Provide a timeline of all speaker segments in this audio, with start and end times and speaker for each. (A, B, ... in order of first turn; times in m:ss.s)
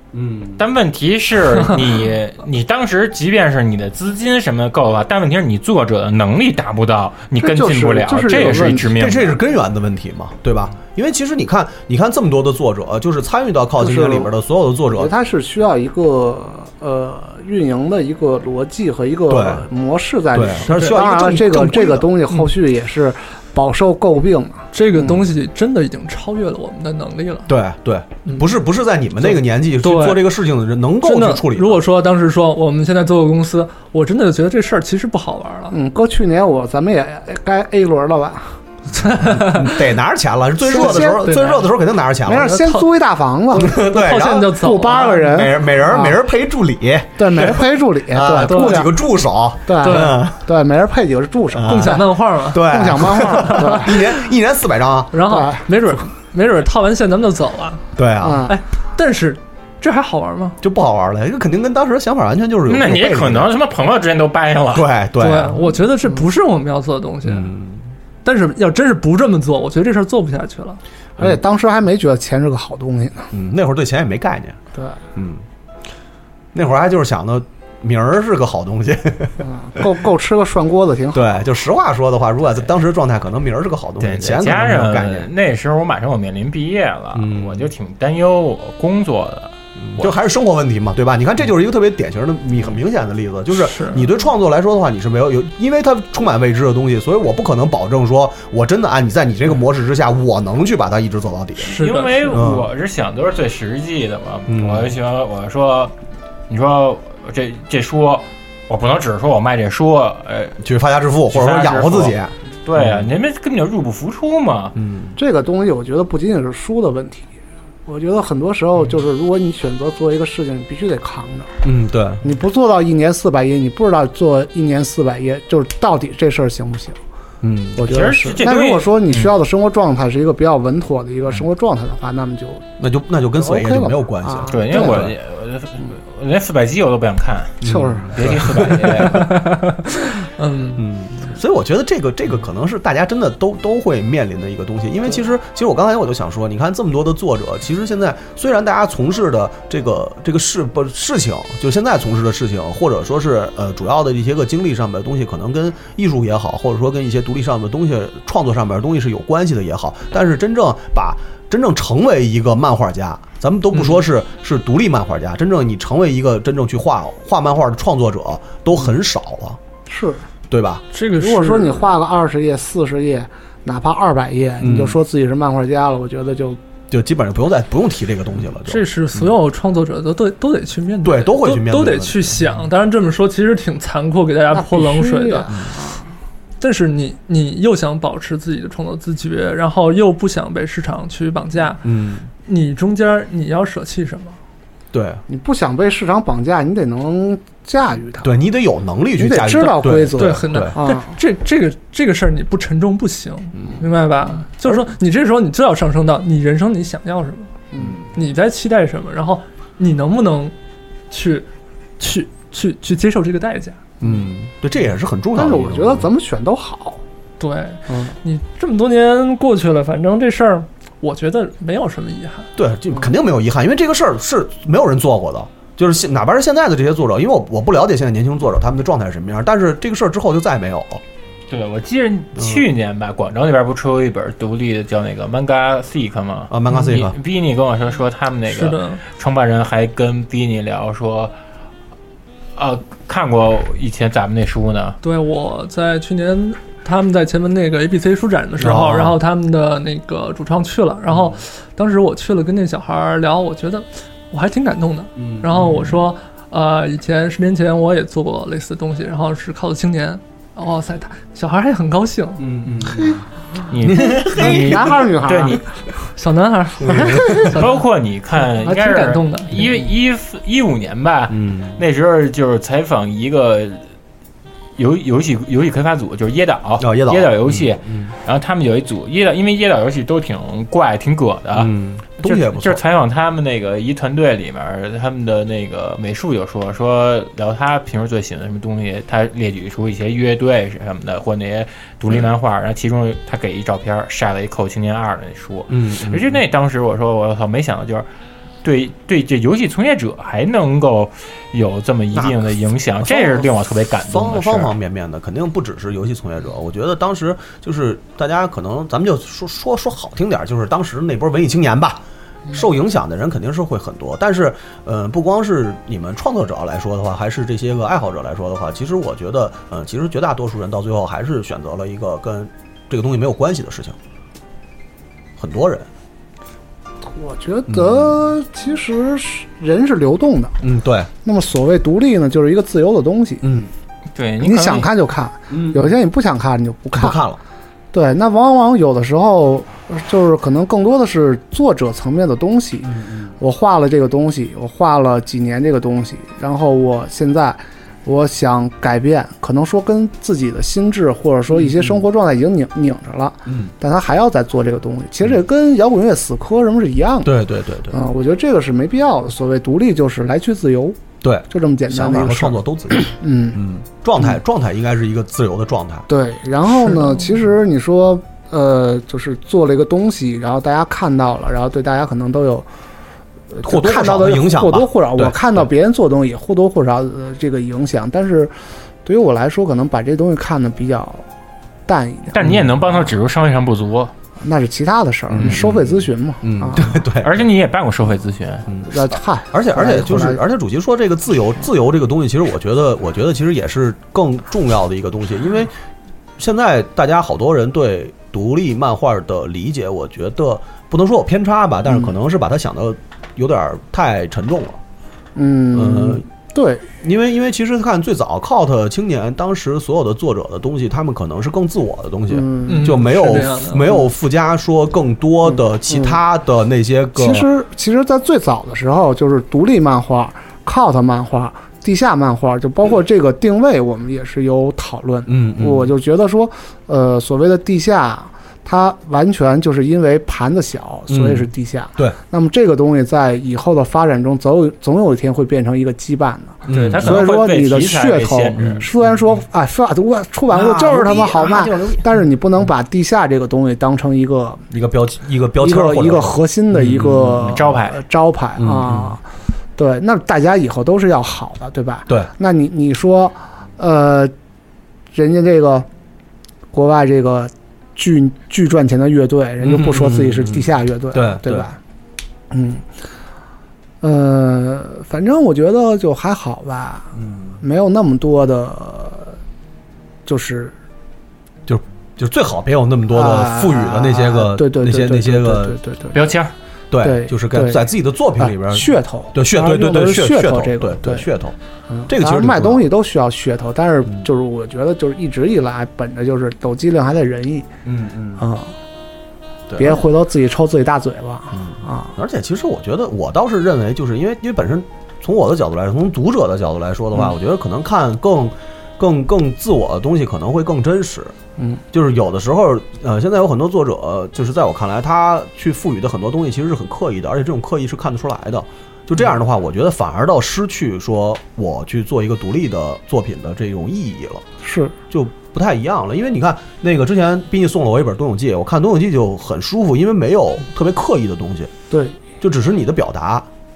0:00.1-0:00.6 A
0:00.6-0:09.4 B
0:07.4-0:08.9 C
0:08.6-0:15.1 A
0:13.8-0:14.3 C
0:14.9-0:25.2 C
0:19.3-0:19.7 A
0:20.3-0:22.1 A
0:20.7-0:21.0 D
0:24.7-0:27.5 D
0:27.5-0:31.8 A
0:28.2-0:28.6 D
0:29.2-0:30.3 D
0:31.0-0:35.7 D
0:35.7-0:38.6 C
0:38.9-0:39.8 D
0:39.2-0:42.6 A
0:40.7-0:41.4 C
0:40.7-0:41.7 D
0:42.2-0:43.8 C
0:42.3-0:42.9 D
0:43.5-0:50.4 A
0:43.6-0:45.4 D
0:44.5-0:46.2 C
0:47.2-0:49.0 C
0:48.4-0:48.8 D
0:49.7-0:54.1 C
0:49.8-0:50.2 D
0:51.5-0:55.1 A
0:51.7-0:52.7 D
0:55.1-0:57.8 D
0:55.2-0:55.7 C
0:58.0-0:58.5 A
0:58.2-0:58.6 C
0:58.5-1:00.6 D
1:00.6-1:03.5 A
1:02.7-1:04.9 B
1:04.7-1:05.7 A
1:05.2-1:07.5 D
1:07.2-1:07.8 A
1:08.2-1:10.8 D
1:11.2-1:13.3 C
1:13.3-1:14.6 A
1:15.1-1:15.4 A
1:16.5-1:19.4 A
1:19.4-1:21.3 C
1:21.1-1:25.3 A
1:24.0-1:30.1 B
1:27.1-1:27.7 A
1:29.8-1:42.7 A
1:33.5-1:34.1 D
1:41.6-1:42.4 D
1:41.8-1:45.9 B
1:44.5-1:44.9 A
1:46.5-1:50.6 B
1:50.6-1:53.1 A
1:51.3-1:54.7 B
1:54.7-1:55.2 A
1:55.2-1:57.3 C
1:57.9-2:01.5 C
2:01.6-2:02.2 A
2:02.2-2:07.0 C
2:07.4-2:08.0 A
2:07.8-2:12.6 C
2:07.8-2:09.0 B
2:12.8-2:15.1 A
2:13.4-2:15.0 C
2:14.5-2:19.4 B
2:17.6-2:19.2 A
2:17.6-2:18.2 C
2:19.0-2:20.8 D
2:20.8-2:49.6 A
2:49.9-2:50.2 C
2:50.5-2:50.8 A
2:50.9-2:51.9 D
2:51.2-2:56.6 C
2:54.6-2:55.0 A
2:56.9-2:59.3 A
2:58.7-3:05.5 D
3:01.0-3:02.4 A
3:04.5-3:06.0 C
3:06.6-3:11.8 D
3:11.8-3:12.3 A
3:12.4-3:14.4 D
3:14.9-3:15.2 A
3:15.3-3:18.3 C
3:18.2-3:20.8 A
3:19.2-3:21.2 C
3:20.2-3:27.5 D
3:23.6-3:23.8 A
3:27.7-3:28.0 C
3:28.1-3:30.6 D
3:31.1-3:31.5 D
3:32.0-3:33.8 D
3:34.0-3:36.1 A
3:35.3-3:37.0 C
3:37.4-3:42.5 D
3:37.9-3:38.1 C
3:42.6-3:51.0 A
3:51.5-4:01.3 B
3:52.4-3:52.6 A
3:56.5-3:57.2 A
3:58.5-3:59.0 D
4:02.6-4:05.0 B
4:05.0-4:22.5 D
4:08.6-4:09.2 A
4:11.1-4:11.4 A
4:15.2-4:15.9 A
4:22.4-4:23.2 A
4:22.8-4:23.2 C
4:23.7-4:25.6 B
4:23.8-4:25.0 A
4:23.9-4:25.6 C
4:26.2-4:27.8 D
4:26.8-4:27.5 A
4:26.9-4:27.5 C
4:27.4-4:33.8 B
4:28.5-4:29.7 D
4:31.3-4:31.8 A
4:34.8-4:58.1 B
4:36.8-4:38.1 A
4:41.5-4:42.8 A
4:55.7-4:56.4 A
4:58.6-5:04.7 B
5:02.1-5:02.4 A
5:03.0-5:24.0 A
5:25.4-5:25.9 A
5:27.0-5:30.6 C
5:27.7-5:28.2 A
5:30.6-5:31.1 A
5:31.2-5:33.4 C
5:33.4-5:33.7 A
5:34.1-5:34.9 B
5:34.4-5:37.2 C
5:35.5-5:35.9 A
5:36.9-5:37.4 A
5:37.9-6:03.6 C
5:42.8-5:43.3 A
5:51.5-5:52.0 A
5:53.5-5:53.7 A
5:57.2-5:58.0 A
6:01.2-6:06.1 A
6:06.1-6:12.7 C
6:13.5-6:18.5 C
6:13.6-6:15.7 A
6:19.0-6:21.2 C
6:21.9-6:22.4 C
6:22.3-6:24.1 B
6:22.4-6:22.7 A
6:24.4-6:27.0 C
6:25.3-6:27.3 A
6:27.2-6:28.7 B
6:28.7-6:28.9 A
6:28.9-6:30.4 C
6:29.5-6:35.7 A
6:36.4-6:44.8 A
6:45.3-6:46.9 C
6:45.7-6:46.2 A
6:47.0-6:57.5 A
6:52.3-6:53.0 C
6:52.7-6:53.9 D
6:55.4-6:56.2 C
6:57.2-7:24.6 C
7:05.3-7:05.9 A
7:11.1-7:12.2 A
7:16.7-7:17.3 A
7:16.7-7:18.8 B
7:18.6-7:18.9 A
7:20.5-7:22.0 A
7:24.7-7:27.7 A
7:25.6-7:29.2 C
7:27.4-7:28.0 B
7:28.6-7:29.2 A
7:29.8-7:34.3 C
7:35.1-7:35.9 C
7:36.7-7:41.8 C
7:39.6-7:41.7 A
7:42.5-7:42.9 C
7:44.0-7:49.4 C
7:47.2-7:47.6 A
7:50.3-7:50.7 C
7:51.7-7:55.8 A
7:53.1-7:56.3 C
7:56.1-7:56.5 B
7:56.9-8:01.6 A
7:57.0-7:57.8 C
7:58.4-8:01.3 C
8:01.9-8:07.7 C
8:02.1-8:02.9 A
8:07.8-8:08.4 A
8:08.4-8:08.7 C
8:09.7-8:10.0 A
8:09.8-8:12.1 C
8:11.5-8:21.3 A
8:21.9-8:34.4 A
8:34.6-8:35.0 C
8:35.1-8:41.7 A
8:41.9-8:42.2 C
8:42.4-8:43.5 A